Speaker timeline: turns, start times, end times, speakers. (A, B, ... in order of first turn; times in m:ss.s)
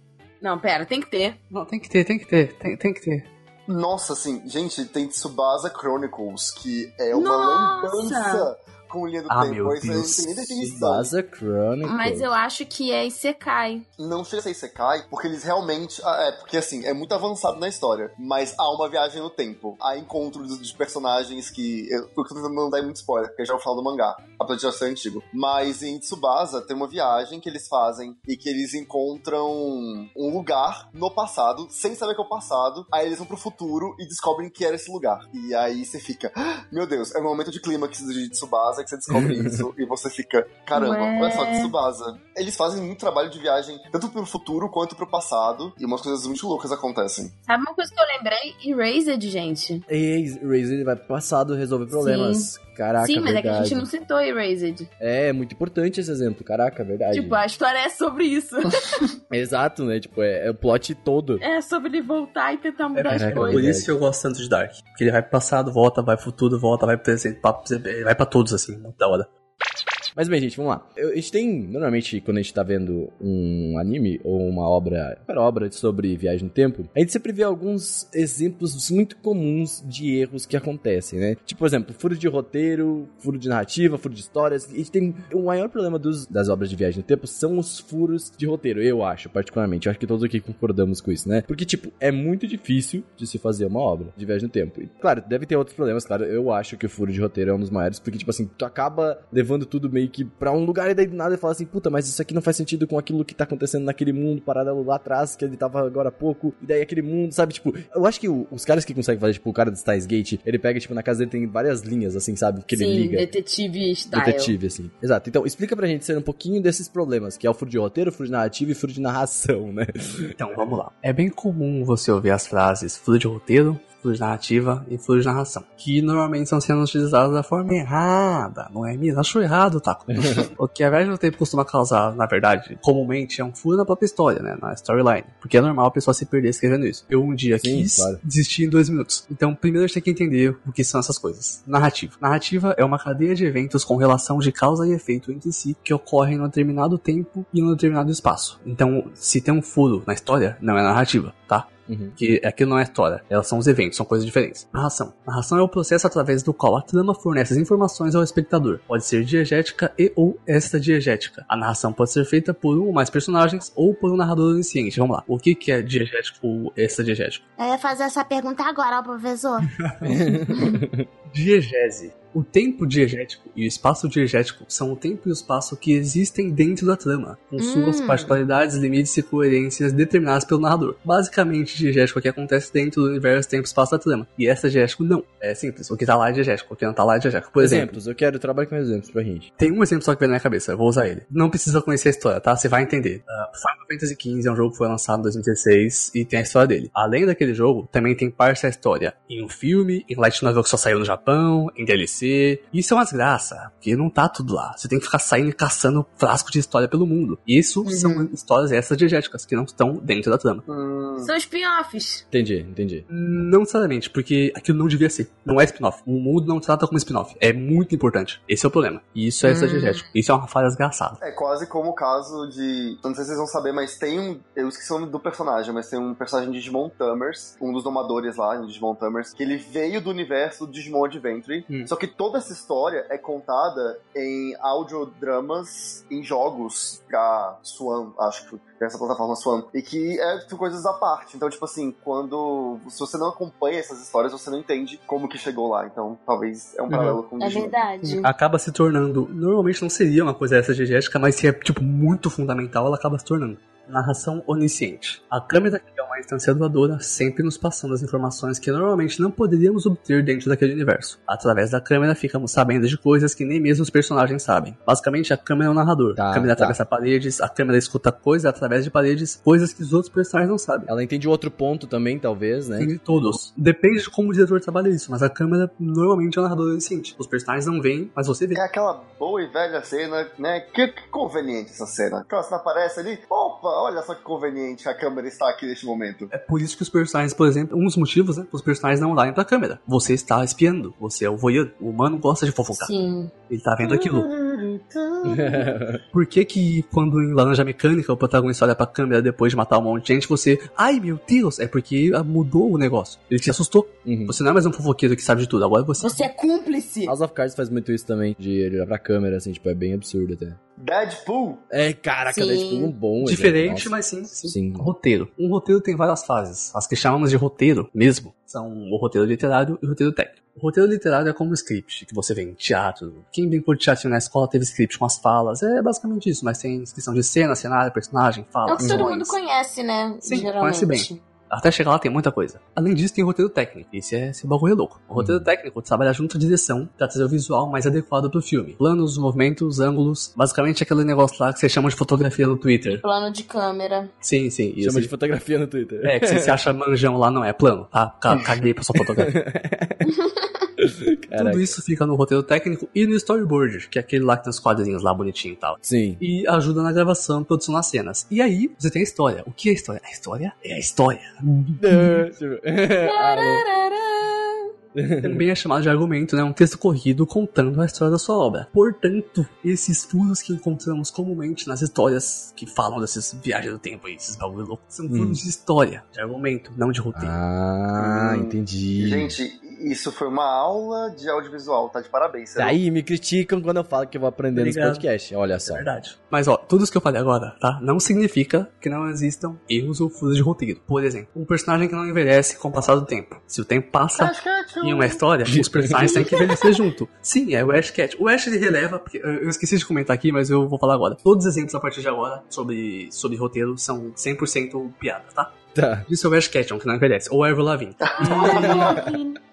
0:00.4-0:01.4 A
0:01.5-0:03.3 B
0:03.7-0:11.1 C
0:07.1-0:08.5 A
0:09.3-0:10.7 B
0:10.6-0:12.3 D
0:11.8-0:13.8 A
0:14.0-0:47.3 C
0:39.1-0:39.6 D
0:40.7-0:41.7 A
0:47.4-0:49.8 A
0:49.9-0:53.9 D
0:51.9-0:54.9 A
0:55.0-0:57.4 D
0:57.1-0:59.1 A
0:59.3-1:01.4 D
1:01.4-1:03.7 A
1:02.9-1:09.3 B
1:03.1-1:03.9 D
1:10.1-1:53.3 D
1:52.7-1:54.5 A
1:54.1-2:00.3 D
2:00.4-2:47.4 B
2:17.6-2:18.2 D
2:31.9-2:32.2 D
2:47.6-2:49.7 E
2:49.7-2:50.5 B
2:50.0-2:51.1 D
2:50.5-2:50.8 A
2:51.3-3:08.0 B
2:57.6-2:58.3 A
3:07.6-3:09.5 D
3:09.6-3:30.6 B
3:27.8-3:28.3 A
3:30.7-3:31.3 C
3:31.2-3:32.2 A
3:32.3-3:33.0 D
3:33.1-3:41.2 B
3:39.4-3:40.0 A
3:41.2-4:07.8 C
4:06.9-4:07.2 B
4:07.4-4:08.3 A
4:08.0-4:30.9 B
4:26.2-4:26.8 D
4:30.9-4:32.9 D
4:32.8-4:38.6 B
4:38.5-4:46.3 C
4:46.3-4:52.9 B
4:52.7-4:53.3 A
4:53.5-4:54.3 B
4:53.8-4:55.5 C
4:55.2-4:56.0 D
4:56.1-5:06.2 B
5:04.0-5:04.4 D
5:06.0-5:07.1 A
5:07.0-5:10.6 D
5:10.8-5:11.6 C
5:11.7-5:14.9 D
5:12.3-5:12.9 A
5:13.2-5:29.3 B
5:28.6-5:31.2 A
5:28.8-5:29.1 D
5:30.2-5:43.0 B
5:35.2-5:35.5 D
5:42.9-5:44.1 A
5:44.2-5:45.1 B
5:44.8-5:46.6 D
5:46.0-5:49.3 B
5:48.3-5:50.1 D
5:50.0-5:50.5 A
5:50.8-5:51.8 D
5:51.4-6:02.2 B
5:55.8-5:56.2 D
6:01.8-6:03.6 D
6:03.0-6:04.7 A
6:04.9-6:05.4 D
6:05.2-6:17.4 B
6:15.1-6:15.4 D
6:17.1-6:19.3 D
6:18.0-6:22.8 C
6:22.6-6:25.9 D
6:24.5-6:25.0 B
6:25.6-6:49.0 B
6:34.1-6:35.2 C
6:35.5-6:36.4 D
6:45.7-6:46.1 D
6:48.2-6:48.6 C
6:48.2-6:49.4 A
6:48.4-6:49.1 D